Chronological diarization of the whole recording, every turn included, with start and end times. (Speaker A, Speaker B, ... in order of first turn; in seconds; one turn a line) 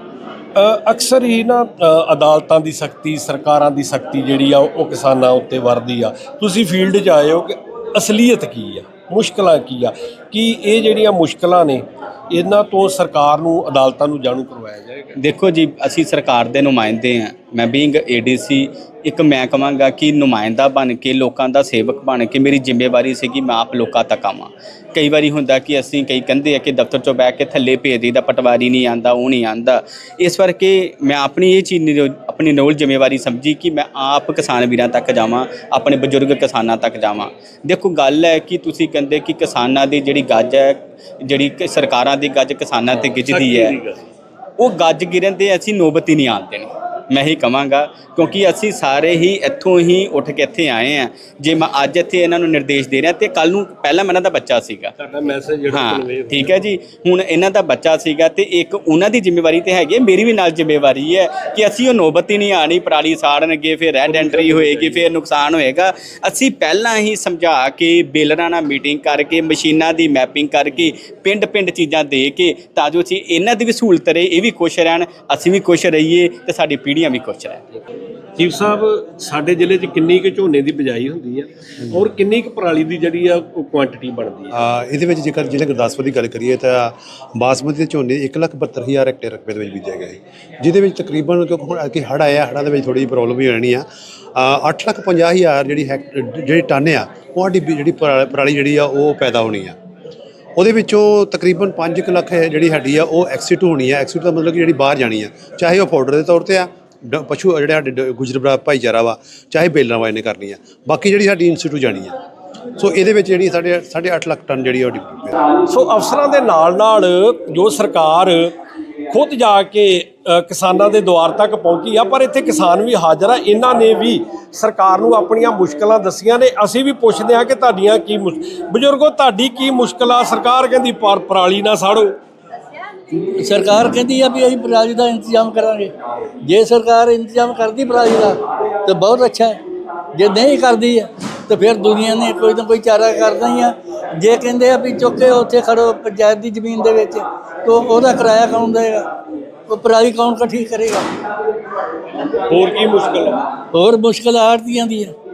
Speaker A: 0.6-15.2
Speaker B: 15.2-43.8
Speaker A: 43.3-44.0
Speaker B: 44.6-55.0
Speaker A: 55.0-56.5
Speaker B: 55.7-77.6
Speaker A: 64.1-65.1
Speaker A: 78.4-84.5
Speaker C: 84.5-99.8
Speaker C: 100.6-112.1
Speaker C: 112.8-115.4
Speaker A: 115.7-118.5
Speaker A: 119.1-132.2
Speaker D: 133.1-139.6
Speaker D: 140.1-149.1
Speaker D: 149.7-151.1
Speaker A: 152.5-153.4
Speaker D: 153.7-155.2